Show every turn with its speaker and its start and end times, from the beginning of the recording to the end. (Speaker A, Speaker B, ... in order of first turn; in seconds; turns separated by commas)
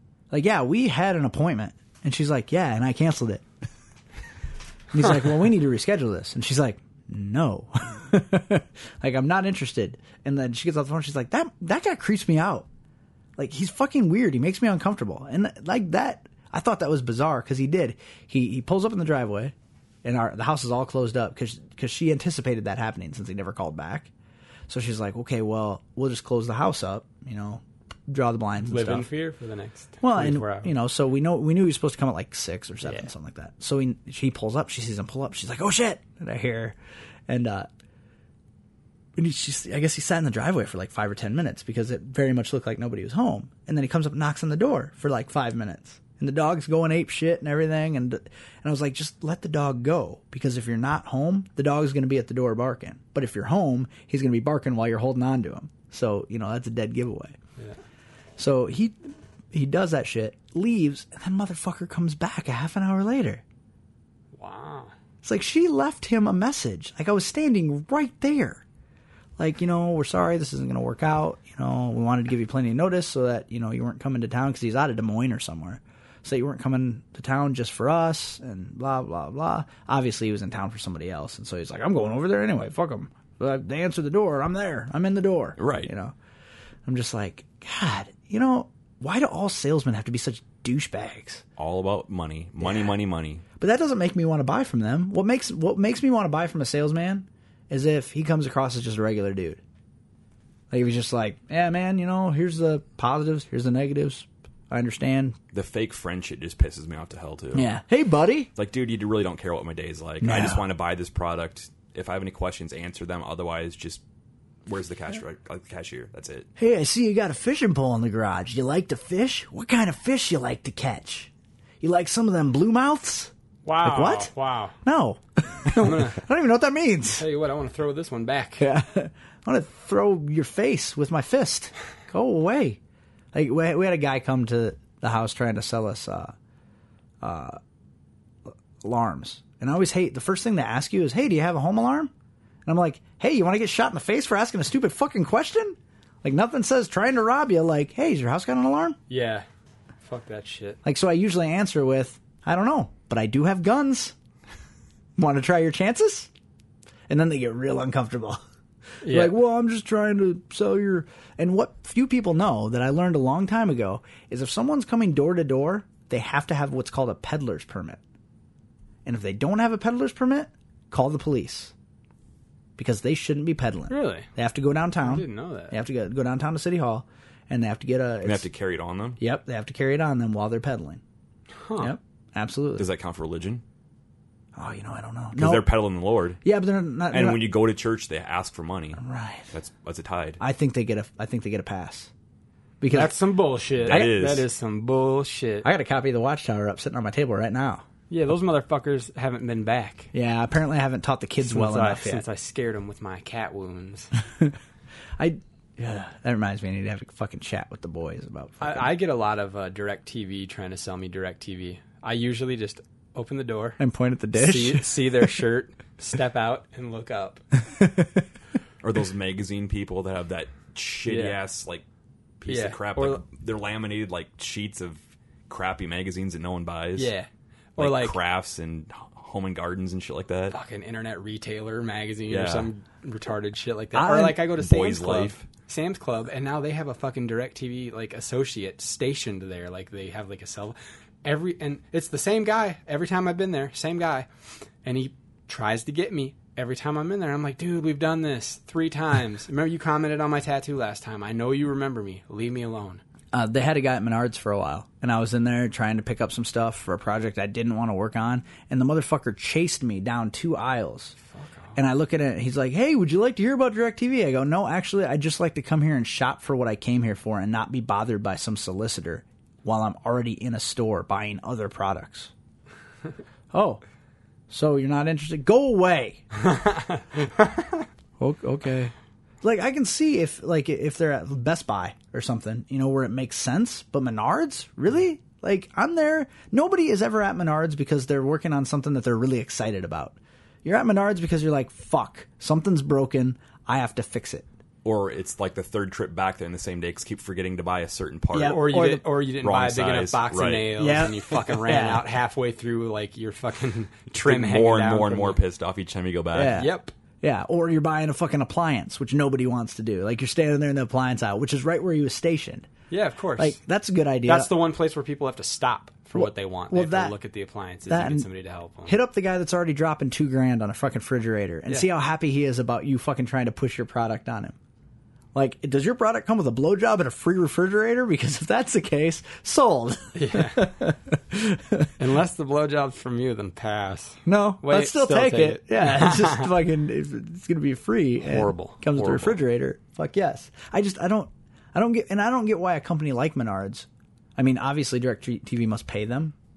Speaker A: 0.3-3.4, Speaker A: 4.9-12.7, Speaker A: 13.4-24.1, Speaker A: 24.7-29.1, Speaker B: 28.6-30.7, Speaker A: 30.0-36.8, Speaker A: 37.3-37.7, Speaker A: 39.1-57.4, Speaker A: 58.4-59.0, Speaker A: 59.5-63.4, Speaker B: 64.3-64.9, Speaker A: 65.2-68.6, Speaker A: 69.4-86.1, Speaker C: 85.6-85.9, Speaker A: 86.8-91.4, Speaker C: 91.6-93.4, Speaker A: 92.6-92.9, Speaker A: 93.6-99.6, Speaker A: 100.7-105.4, Speaker C: 105.5-107.7, Speaker A: 107.5-108.5, Speaker C: 108.5-114.0, Speaker A: 110.2-110.6, Speaker C: 114.7-116.5, Speaker A: 116.6-127.2, Speaker B: 123.6-124.7, Speaker B: 125.7-126.2, Speaker B: 127.2-128.7, Speaker A: 128.6-132.8, Speaker A: 133.3-136.3, Speaker A: 137.2-137.6, Speaker A: 138.5-142.1, Speaker A: 142.7-149.0, Speaker B: 149.1-149.4, Speaker B: 150.0-150.8, Speaker A: 150.8-154.1, Speaker A: 155.2-156.3, Speaker A: 157.1-158.4, Speaker A: 159.0-168.0, Speaker B: 159.0-159.3, Speaker A: 169.1-171.7, Speaker A: 172.8-178.5, Speaker B: 173.9-174.3, Speaker B: 175.0-175.8, Speaker C: 178.2-179.2, Speaker A: 179.2-181.0, Speaker B: 181.6-181.9, Speaker A: 181.8-182.9, Speaker C: 182.8-183.6, Speaker A: 184.6-185.7, Speaker C: 185.3-186.4, Speaker A: 186.4-187.5, Speaker C: 187.1-189.0, Speaker A: 189.0-189.5, Speaker C: 189.5-190.4, Speaker A: 190.4-192.1, Speaker A: 192.8-193.1, Speaker B: 192.9-195.7, Speaker C: 193.8-194.5, Speaker A: 193.9-194.2, Speaker A: 195.6-197.8, Speaker B: 198.1-200.1, Speaker A: 200.1-202.2, Speaker B: 201.4-204.1, Speaker A: 205.2-208.9, Speaker B: 208.6-213.8, Speaker A: 213.8-215.4, Speaker B: 214.3-217.4, Speaker A: 217.7-218.2, Speaker C: 218.8-221.8, Speaker B: 221.1-221.4, Speaker C: 222.4-227.1, Speaker B: 222.5-223.2, Speaker B: 226.9-228.2, Speaker C: 227.8-230.6, Speaker B: 230.5-244.3, Speaker C: 232.3-232.7, Speaker A: 233.9-234.5, Speaker C: 234.5-235.4, Speaker B: 244.8-253.0, Speaker A: 253.3-261.1, Speaker B: 261.3-261.8, Speaker A: 261.8-272.3, Speaker A: 273.5-273.8, Speaker A: 274.5-276.2, Speaker A: 278.2-294.4, Speaker C: 294.8-300.8, Speaker A: 298.3-299.0, Speaker B: 298.4-305.4, Speaker A: 300.8-302.0, Speaker C: 304.1-306.6, Speaker A: 306.3-312.7, Speaker B: 306.5-306.9, Speaker B: 312.9-313.6, Speaker A: 313.4-314.5, Speaker B: 314.2-319.0, Speaker A: 316.1-317.1, Speaker A: 317.9-318.3, Speaker A: 318.8-324.6, Speaker A: 325.3-331.9, Speaker B: 330.1-330.7, Speaker B: 332.0-336.5, Speaker A: 334.2-346.3, Speaker B: 338.2-339.3